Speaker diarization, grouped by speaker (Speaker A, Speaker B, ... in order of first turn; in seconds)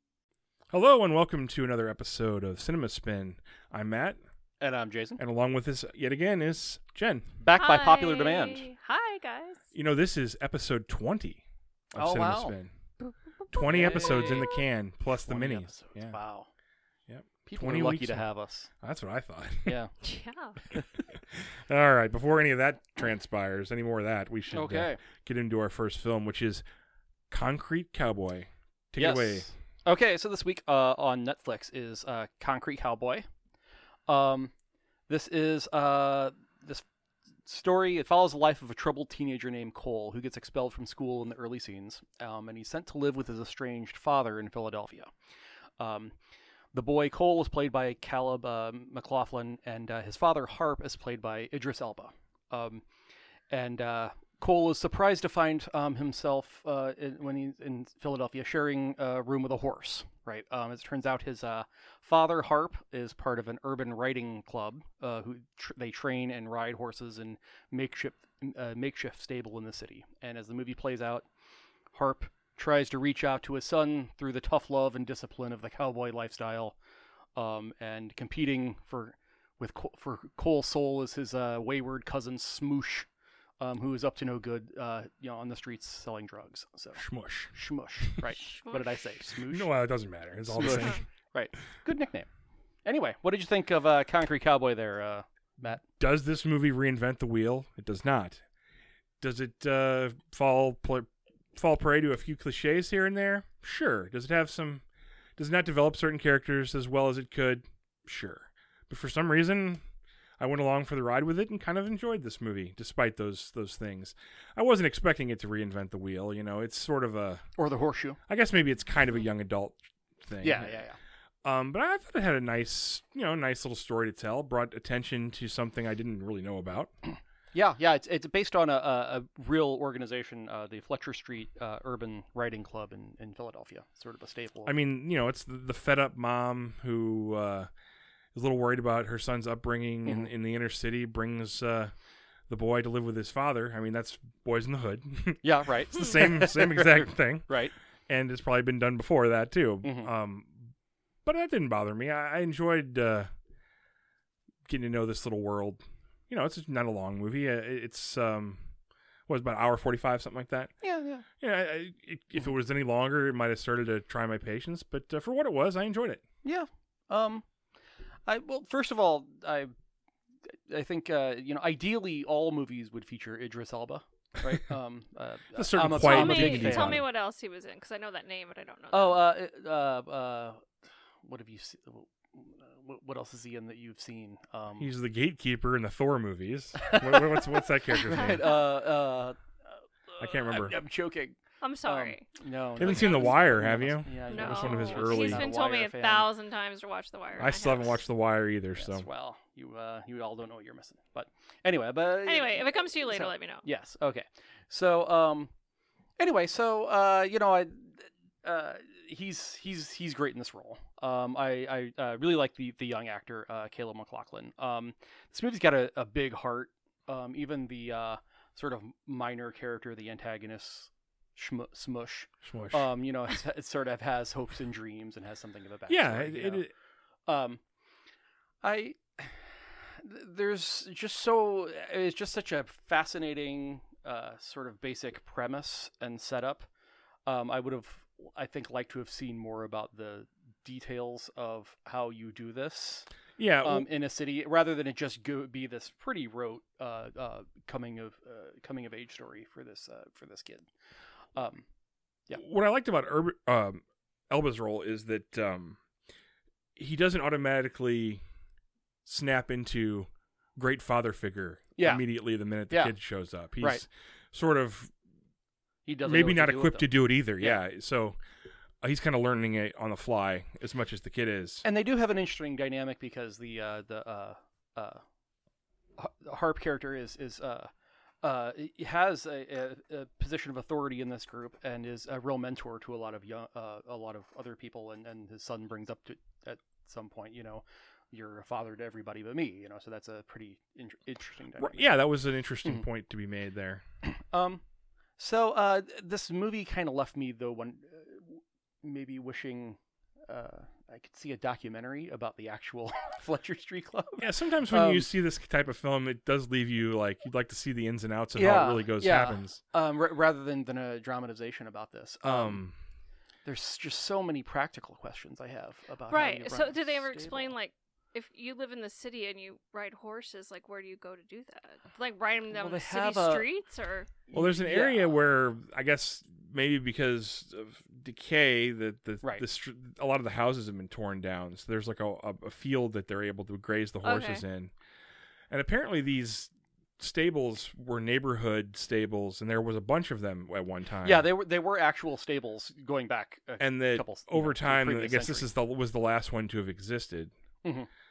Speaker A: 0.7-4.2, 5.2-7.3, 9.7-11.4, 11.9-12.7, 13.5-16.2, 17.1-18.2, 18.8-19.8, 21.1-26.6, 27.3-29.5, 87.0-88.2, 89.3-91.0, 96.0-98.4, 99.2-104.8, 105.4-109.8, 110.4-117.5, 118.3-120.8, 121.4-126.9, 134.7-137.7, 138.3-141.9, 142.5-147.5, 148.1-150.7, 151.2-153.3, 154.7-158.6, 159.3-160.7, 161.4-166.2, 175.5-177.0, 184.8-188.5, 190.2-190.8, 192.8-195.5, 197.4-199.1, 222.4-222.9, 225.9-226.7, 243.4-243.9, 252.4-255.8, 256.8-258.2, 259.0-264.9, 266.0-268.2, 268.8-271.6, 291.6-293.8, 304.2-309.6, 312.2-312.8, 324.3-334.7, 335.5-341.3, 343.6-347.3
Speaker B: 4.6-5.2, 7.4-8.7, 11.9-12.5, 13.6-14.6, 15.2-16.5, 17.5-18.7, 19.6-19.9, 24.5-25.0, 29.0-33.3, 34.1-34.5, 35.1-36.9, 37.5-45.1, 45.8-46.1, 46.7-52.8, 53.5-71.3, 71.9-76.8, 77.3-83.1, 83.6-89.7, 90.5-92.3, 92.8-95.8, 117.6-118.2, 120.4-121.0, 127.5-134.8, 145.4-147.7, 149.8-150.1, 160.8-161.2, 166.4-167.4, 168.3-169.7, 170.7-177.0, 178.9-180.7, 181.2-184.9, 186.8-189.4, 190.1-196.3, 198.8-205.5, 206.2-226.7, 227.3-227.6, 228.6-236.7, 237.2-243.1, 243.6-250.7, 251.3-251.7, 261.8-262.0, 265.9-266.9, 271.6-275.0, 276.0-277.7, 278.2-291.9, 294.0-294.6, 295.2-305.1, 308.3-312.6, 313.4-317.5, 322.5-323.5, 324.3-325.1, 341.0-345.5, 347.6-347.9
Speaker C: 7.5-9.6, 13.1-14.6, 20.0-20.6, 88.5-88.9, 175.9-179.2, 191.6-192.3, 192.8-193.3, 194.3-198.0, 202.2-203.6, 316.1-324.1, 334.0-334.4